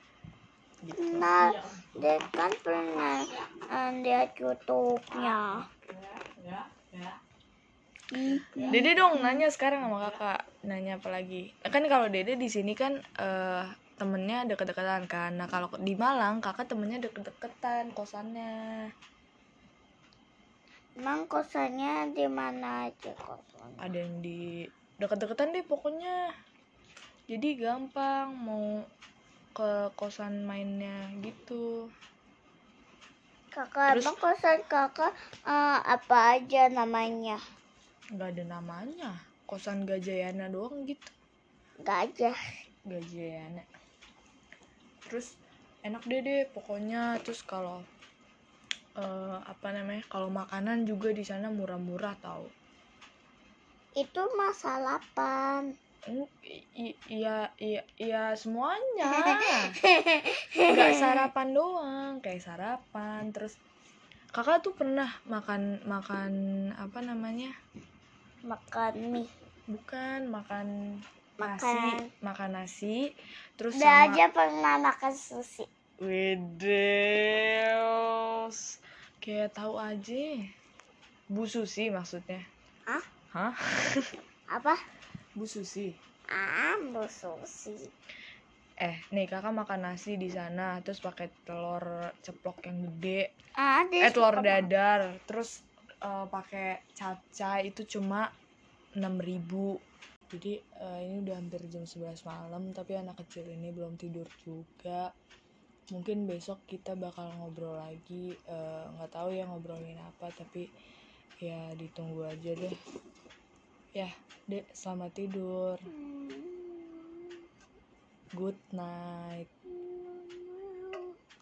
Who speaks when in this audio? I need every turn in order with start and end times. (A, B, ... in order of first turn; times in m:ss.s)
0:00.8-0:01.5 A
0:00.9-0:05.7 B
0:06.0-0:07.1 A
0:08.1-0:09.4 B
0:08.5-0:18.7 A
0:21.0-0:23.9 B
0:23.8-0:24.4 A
0:25.0-0:26.2 A
0:27.3-0:28.7 A
0:29.6-0:31.6 A
0:33.5-0:37.4 B
0:33.9-0:34.2 A
0:38.2-0:41.1 A
0:41.8-0:42.5 B
0:42.9-0:43.6 A
0:45.1-0:45.3 A
0:45.8-0:47.8 A
0:49.0-0:52.5 A
0:54.0-0:55.7 B
0:56.1-0:59.8 A
0:59.2-1:01.2 B
1:00.6-1:03.6 A
1:04.3-1:07.5 A
1:08.5-1:09.3 B
1:09.7-1:10.7 A
1:11.4-1:12.1 B
1:11.4-1:14.2 A
1:13.7-1:15.7 B
1:16.0-1:20.4 A
1:21.3-1:22.4 A
1:23.3-1:24.1 A
1:24.5-1:24.8 B
1:25.4-1:26.0 A
1:26.3-1:27.9 B
1:28.8-1:33.3 A
1:33.6-1:34.6 B
1:34.0-1:35.5 A
1:36.0-1:38.3 A
1:39.0-1:39.8 A
1:40.3-1:45.1 A
1:45.9-1:50.7 A
1:51.4-1:52.7 A
1:54.0-1:55.8 A
1:55.9-1:57.4 B
1:58.4-1:59.5 A
1:59.7-2:01.2 B